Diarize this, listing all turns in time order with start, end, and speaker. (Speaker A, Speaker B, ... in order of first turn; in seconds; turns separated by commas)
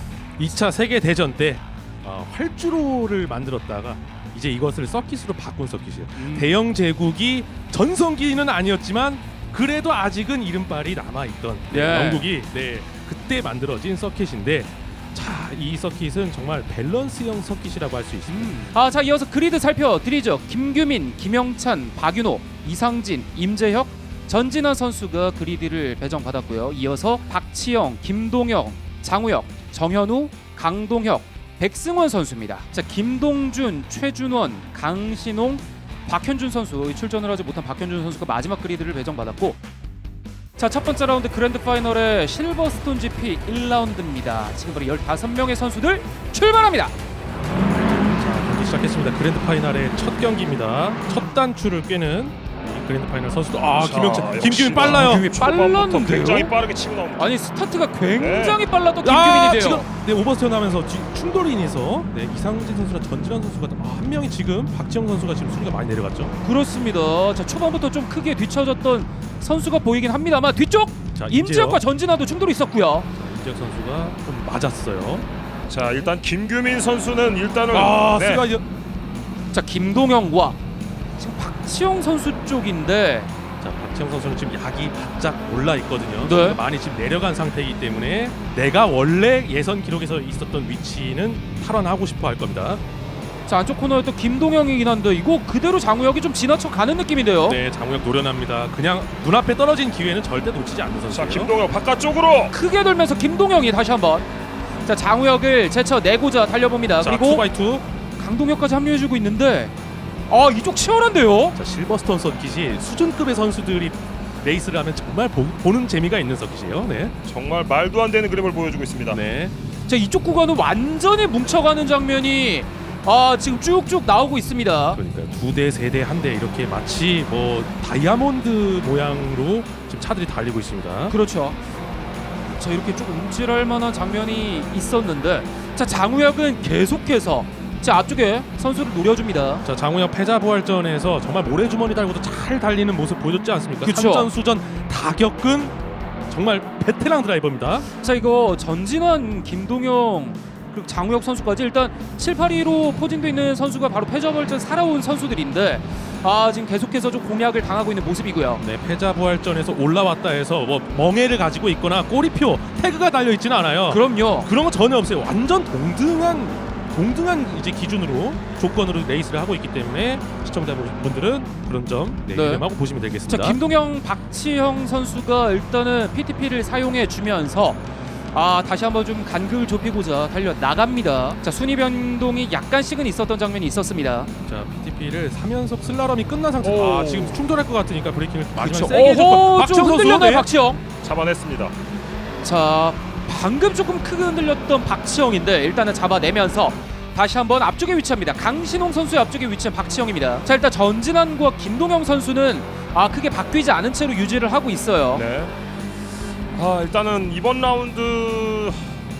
Speaker A: 0.4-18.6, Speaker B: 6.2-6.5, Speaker B: 11.7-12.3, Speaker B: 18.3-39.6, Speaker B: 40.6-46.9, Speaker A: 47.9-55.3, Speaker C: 53.8-57.3, Speaker B: 54.8-56.5, Speaker B: 57.2-59.9, Speaker C: 58.2-58.6, Speaker A: 59.0-66.3, Speaker B: 66.4-73.1, Speaker A: 71.1-71.8, Speaker A: 73.1-75.2, Speaker C: 75.7-78.4, Speaker A: 77.7-78.6, Speaker B: 79.5-80.6, Speaker B: 81.2-83.3, Speaker A: 83.6-92.8, Speaker B: 86.2-86.6, Speaker B: 93.5-97.6, Speaker A: 97.5-101.5, Speaker C: 101.1-102.5, Speaker B: 102.5-104.3, Speaker B: 104.8-107.4, Speaker A: 107.0-107.8, Speaker B: 108.2-109.7, Speaker B: 110.3-111.5, Speaker A: 111.5-117.1, Speaker C: 117.2-119.2, Speaker A: 119.1-119.5, Speaker B: 119.9-125.0, Speaker A: 124.9-131.1, Speaker B: 131.1-131.6, Speaker B: 132.6-139.6, Speaker A: 139.6-145.7, Speaker B: 143.8-144.3, Speaker A: 146.3-147.8, Speaker B: 148.0-158.6, Speaker A: 158.6-173.6, Speaker B: 163.9-164.5, Speaker B: 172.3-172.6, Speaker B: 173.3-177.8, Speaker B: 178.3-184.3, Speaker A: 184.5-190.5, Speaker C: 186.6-187.4, Speaker B: 188.6-190.8, Speaker C: 191.0-191.7, Speaker B: 192.4-205.2, Speaker C: 205.1-205.5, Speaker C: 206.5-208.9